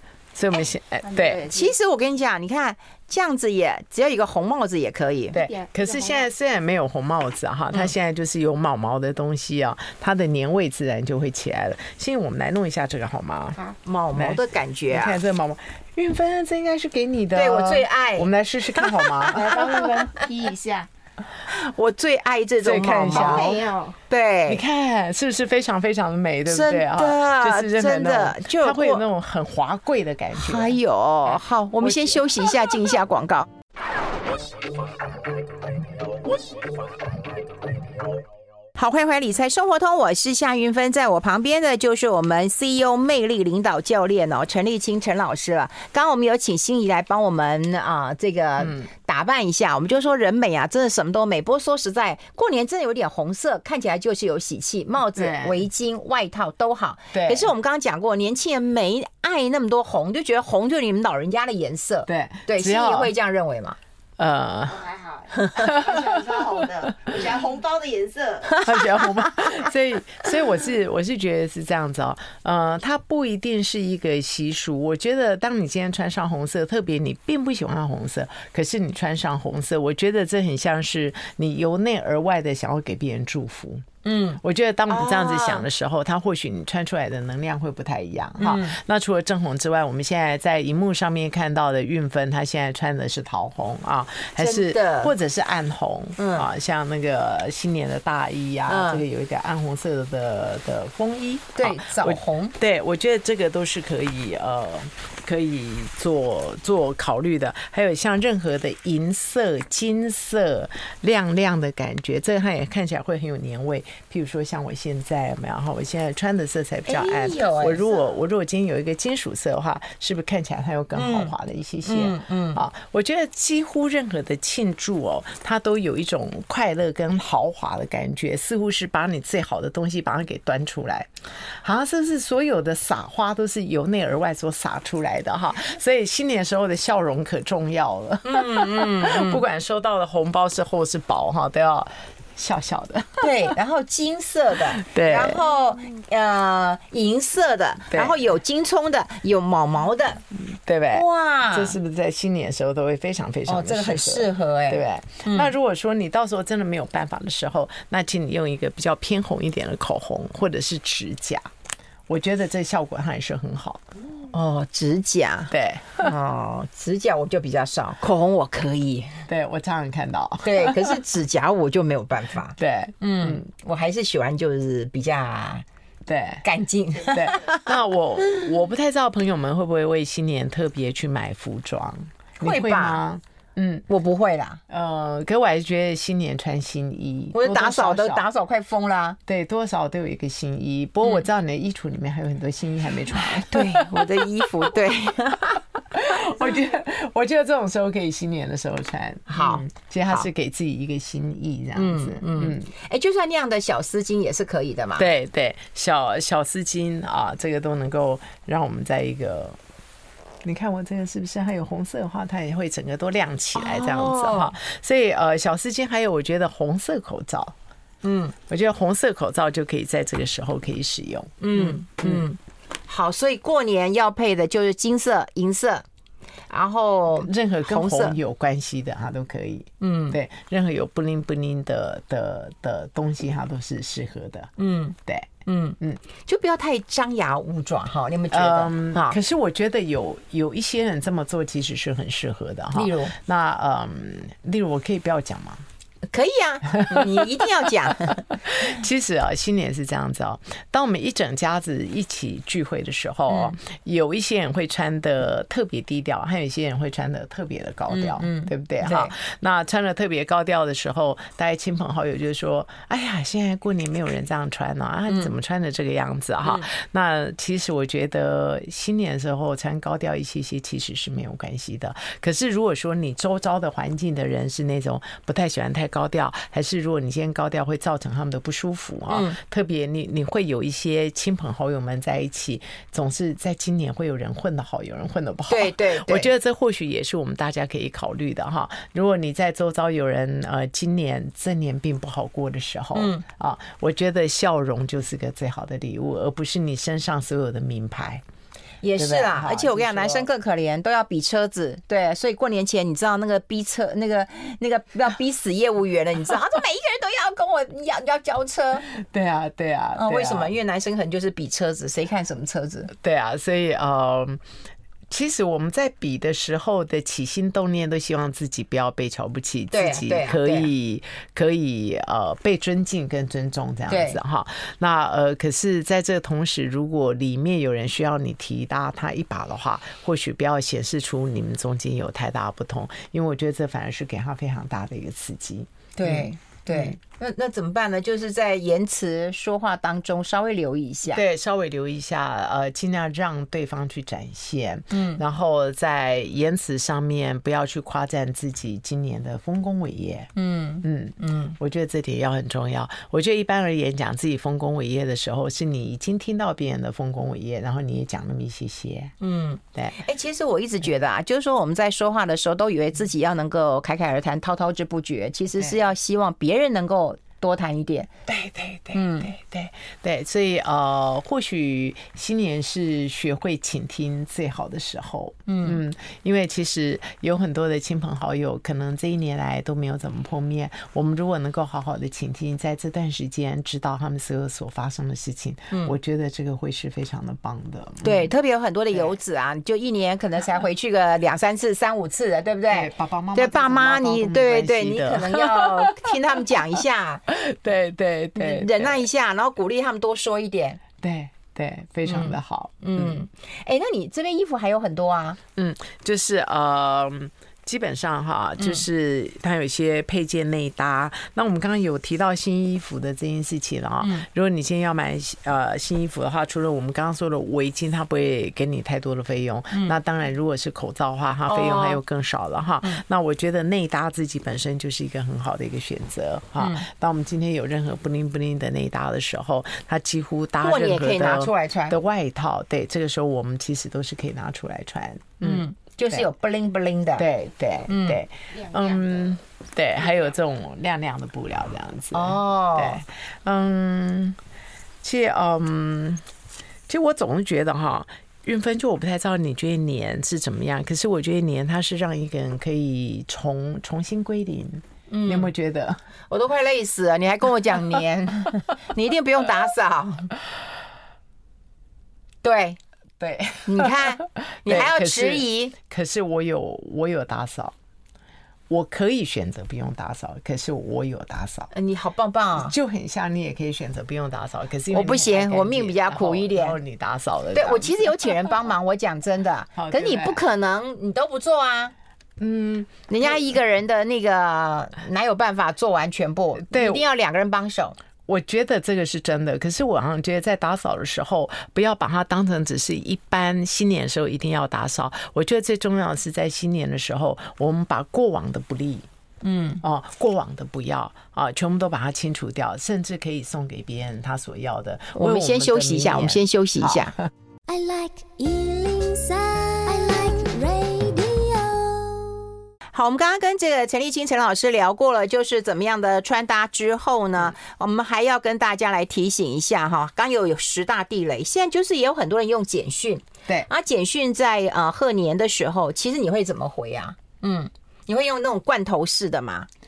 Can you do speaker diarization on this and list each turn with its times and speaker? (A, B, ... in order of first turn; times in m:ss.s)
0:00.3-0:01.5 A
0:01.0-0:01.7 B
0:01.5-0:05.4 C
0:05.3-0:06.3 B
0:05.3-0:13.6 A
0:13.8-0:15.2 C
0:14.1-0:20.2 A
0:17.3-0:19.4 C
0:19.3-0:20.9 B
0:21.5-0:23.6 C
0:22.6-0:23.7 A
0:23.1-0:24.0 B
0:24.1-0:24.6 C
0:24.5-0:32.7 A
0:26.4-0:29.0 C
0:30.3-0:33.5 C
0:38.8-1:03.8 C
0:48.6-0:48.9 A
0:55.1-0:55.6 A
0:57.1-0:57.5 A
1:02.1-1:03.1 A
1:04.2-1:04.9 A
1:04.7-1:08.7 B
1:05.3-1:05.7 C
1:05.5-1:07.2 A
1:08.6-1:23.9 A
1:24.0-1:25.6 C
1:24.4-2:23.5 A
1:28.4-1:28.8 C
1:34.4-1:35.1 C
1:36.2-1:36.5 C
1:38.6-1:39.0 C
1:41.6-1:42.5 C
1:56.9-1:58.0 C
2:00.9-2:01.3 C
2:01.8-2:02.6 C
2:18.2-2:19.4 C
2:23.2-2:30.2 C
2:24.7-2:25.4 A
2:27.9-2:28.2 A
2:30.5-2:41.5 A
2:30.9-2:31.8 C
2:33.5-2:35.5 C
2:42.1-2:43.8 A
2:44.3-2:49.2 C
2:45.5-2:46.1 A
2:49.3-2:50.9 A
2:50.4-2:55.6 C
2:52.6-2:53.4 A
2:56.1-2:56.4 A
2:56.4-2:57.7 C
2:57.1-3:03.8 A
3:02.4-3:03.0 C
3:03.9-3:04.6 C
3:04.7-3:08.2 A
3:07.3-3:09.2 C
3:09.2-3:22.7 A
3:13.1-3:15.6 C
3:19.3-3:20.3 C
3:21.7-3:25.1 C
3:25.0-3:29.6 A
3:30.4-3:37.5 A
3:33.5-3:34.5 C
3:38.0-3:38.3 C
3:38.5-3:42.3 A
3:41.4-3:45.8 C
3:46.5-3:48.2 C
3:47.2-3:55.3 A
3:49.8-3:50.2 C
3:54.6-3:54.9 C
3:55.4-3:59.2 C
3:58.3-4:05.6 A
4:02.7-4:03.1 C
4:06.1-4:08.3 C
4:06.8-4:07.2 A
4:08.3-4:58.2 A
4:13.3-4:13.6 C
4:17.9-4:19.1 C
4:39.1-4:39.4 C
4:45.5-4:46.3 C
4:52.9-4:53.2 C
4:58.8-5:08.9 C
4:59.0-5:00.3 A
5:08.9-5:10.6 A
5:09.9-5:12.9 C
5:12.9-5:14.4 A
5:15.1-5:37.0 A
5:19.7-5:20.7 C
5:23.9-5:24.2 C
5:36.0-5:41.2 C
5:41.1-5:50.3 A
5:44.9-5:45.2 C
5:50.3-5:51.6 C
5:50.8-5:59.1 A
5:59.2-6:08.1 C
6:08.3-6:28.3 A
6:08.9-6:09.3 C
6:15.4-6:15.8 C
6:28.0-6:37.2 C
6:32.7-6:36.6 A
6:37.3-6:39.1 A
6:38.3-6:40.8 C
6:41.0-6:43.2 A
6:42.0-6:45.4 C
6:45.6-7:16.3 A
6:48.6-6:48.8 C
7:01.5-7:02.0 C
7:06.6-7:06.8 C
7:10.6-7:12.0 C
7:15.4-7:17.2 C
7:17.2-7:24.4 A
7:17.9-7:18.2 C
7:18.6-7:19.2 B
7:22.1-7:23.0 C
7:25.0-7:26.2 A
7:26.9-7:36.0 A
7:35.1-7:35.5 C
7:36.3-7:40.3 C
7:42.4-7:42.8 C
7:43.2-7:47.7 A
7:43.6-7:45.7 C
7:48.7-7:51.7 A
7:51.7-7:52.7 C
7:52.6-7:58.3 A
7:54.9-7:56.8 C
7:57.5-8:01.9 C
7:59.8-8:00.4 A
8:02.4-8:03.5 A
8:03.1-8:08.0 C
8:06.6-8:07.0 A
8:08.3-8:19.1 A
8:19.4-8:19.8 C
8:19.8-8:27.3 A
8:25.1-8:27.1 C
8:27.8-8:31.7 C
8:32.9-8:49.7 C